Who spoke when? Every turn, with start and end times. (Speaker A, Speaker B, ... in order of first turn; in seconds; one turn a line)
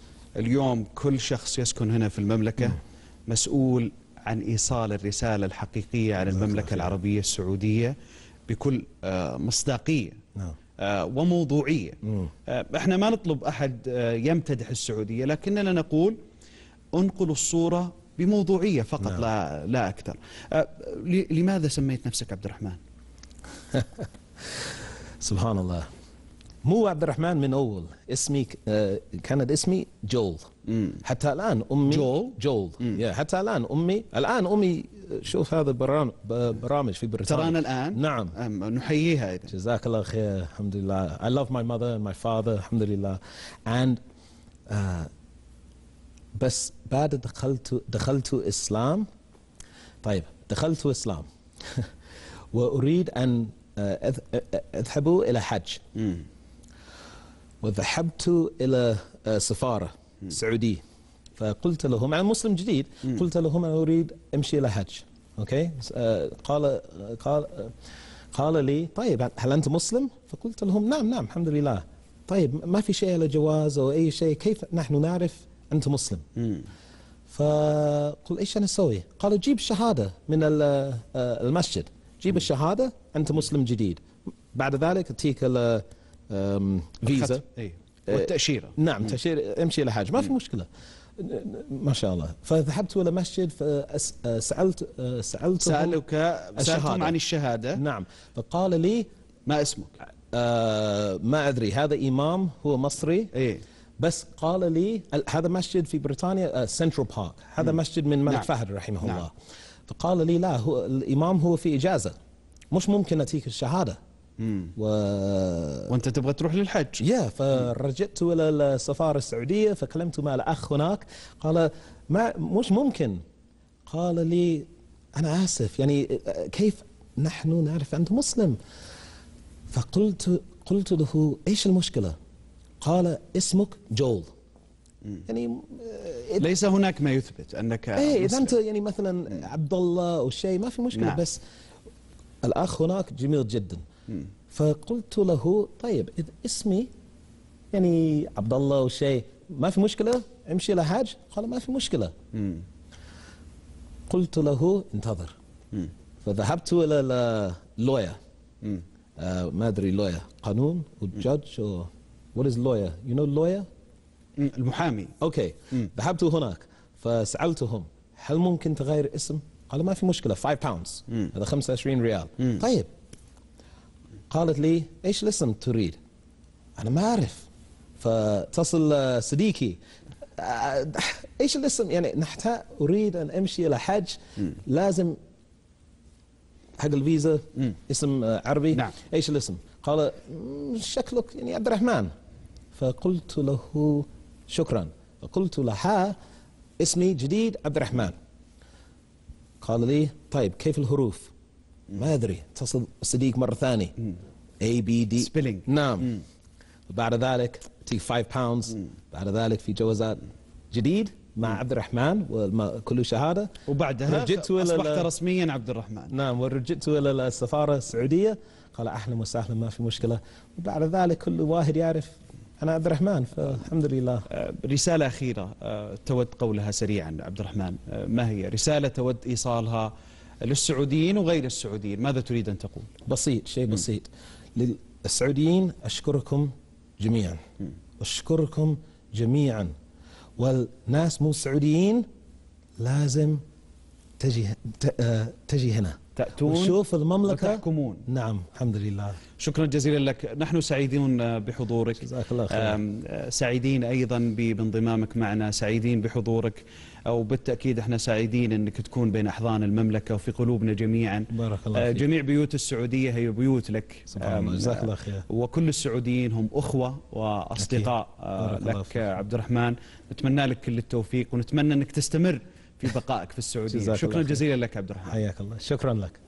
Speaker A: 0.4-8.0
Speaker B: 6.3-6.9
Speaker A: 8.5-10.2
Speaker A: 10.8-16.2
Speaker B: 12.1-12.3
Speaker A: 16.9-22.8
Speaker B: 24.5-25.9
Speaker B: 26.6-30.5
Speaker A: 30.7-31.0
Speaker B: 31.0-38.4
Speaker A: 31.9-33.0
Speaker A: 37.3-39.5
Speaker B: 39.5-44.0
Speaker B: 44.7-45.1
Speaker B: 46.4-49.1
Speaker B: 50.0-51.9
Speaker B: 52.5-55.8
Speaker A: 56.0-56.3
Speaker B: 57.6-60.8
Speaker B: 61.4-67.7
Speaker B: 68.3-76.2
Speaker A: 76.4-76.7
Speaker B: 77.3-87.4
Speaker A: 87.0-88.8
Speaker B: 88.1-96.0
Speaker A: 95.6-97.8
Speaker B: 96.6-97.2
Speaker B: 97.8-99.1
Speaker A: 99.5-100.0
Speaker B: 100.3-103.3
Speaker A: 103.3-103.6
Speaker B: 104.0-109.3
Speaker A: 107.6-108.5
Speaker A: 109.0-109.3
Speaker B: 109.9-112.2
Speaker B: 112.7-114.0
Speaker A: 114.4-114.7
Speaker B: 114.8-115.9
Speaker A: 115.9-117.0
Speaker B: 117.0-123.2
Speaker B: 123.9-128.6
Speaker B: 129.7-132.2
Speaker B: 132.8-134.3
Speaker B: 135.3-136.5
Speaker A: 136.4-138.6
Speaker B: 138.0-141.4
Speaker A: 140.9-141.2
Speaker B: 142.4-143.8
Speaker B: 144.5-146.9
Speaker B: 147.7-152.1
Speaker A: 152.3-152.7
Speaker B: 154.1-155.3
Speaker B: 156.2-158.2
Speaker B: 159.2-163.7
Speaker A: 164.4-165.2
Speaker B: 165.2-172.9
Speaker B: 174.3-176.0
Speaker B: 176.8-177.5
Speaker B: 178.0-179.8
Speaker B: 180.4-185.2
Speaker B: 186.8-192.1
Speaker B: 192.7-196.2
Speaker B: 196.8-198.2
Speaker B: 199.6-201.3
Speaker B: 201.9-203.9
Speaker B: 204.6-206.1
Speaker A: 205.2-206.2
Speaker B: 206.9-213.5
Speaker A: 213.7-216.1
Speaker B: 214.1-215.1
Speaker B: 216.1-224.3
Speaker A: 224.3-232.9
Speaker B: 233.1-237.4
Speaker B: 238.0-239.7
Speaker B: 240.4-242.1
Speaker B: 242.8-243.4
Speaker B: 244.2-249.2
Speaker A: 246.2-248.1
Speaker A: 249.4-275.2
Speaker B: 252.0-252.8
Speaker B: 261.3-262.1
Speaker B: 264.1-265.2
Speaker B: 267.6-269.1
Speaker B: 273.7-274.4
Speaker B: 275.1-276.2